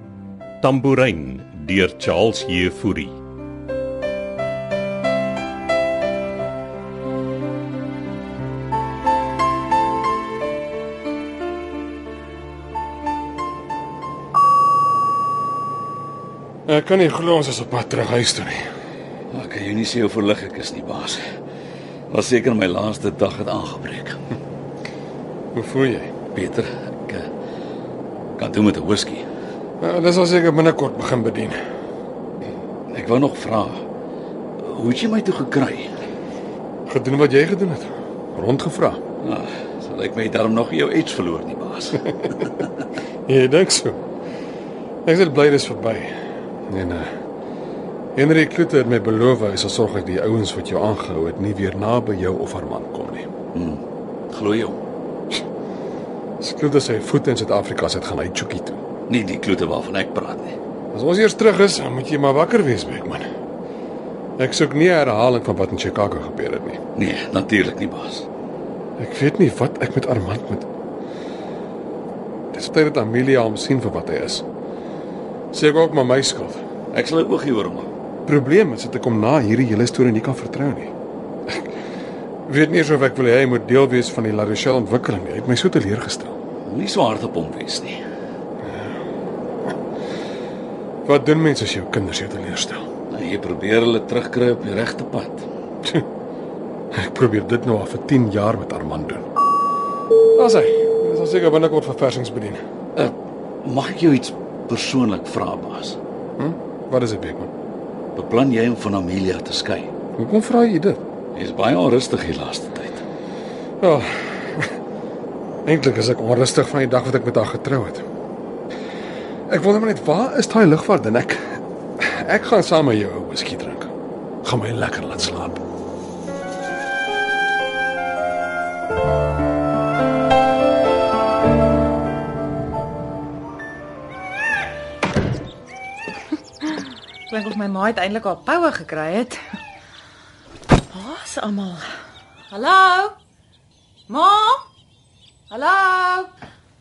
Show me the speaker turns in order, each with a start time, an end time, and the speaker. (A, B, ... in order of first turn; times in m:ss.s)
0:00.6-0:03.2 A
0:16.7-0:18.6 B
0:19.3-0:21.2 C
0:22.1-0:24.2 C
0:25.6-0:26.1 B
0:26.3-0:27.3 C
0:28.4-0:29.2 C
0:29.8-0:31.6 B
0:32.9-0:33.8 C
0:34.6-0:35.9 C
0:36.9-0:39.0 B
0:39.2-0:42.7 C
0:43.3-0:44.0 B
0:45.0-0:46.1 B
0:46.7-0:47.1 B
0:48.2-0:53.3 B
0:53.5-0:53.8 C
0:54.3-0:54.8 C
0:56.4-0:58.8 B
0:59.1-1:00.6 C
1:00.9-1:03.2 B
1:04.4-1:06.8 B
1:07.0-1:08.3 C
1:09.0-1:10.7 B
1:12.5-1:14.4 B
1:15.5-1:16.6 B
1:16.9-1:17.9 C
1:18.3-1:20.9 B
1:22.5-1:26.4 B
1:26.7-1:28.0 C
1:28.6-1:28.9 B
1:31.0-1:32.8 B
1:33.1-1:35.4 C
1:36.9-1:39.2 B
1:40.4-1:42.6 B
1:43.0-1:46.0 C
1:46.4-1:47.5 B
1:48.2-1:49.9 C
1:50.2-1:51.0 B
1:51.4-1:53.0 C
1:53.8-1:54.7 B
1:55.7-1:58.0 B
1:59.5-2:03.9 B
2:04.4-2:05.6 B
2:17.3-2:19.4 D
2:20.9-2:21.9 D
2:22.5-2:23.1 D
2:24.1-2:24.6 D
2:25.5-2:26.3 D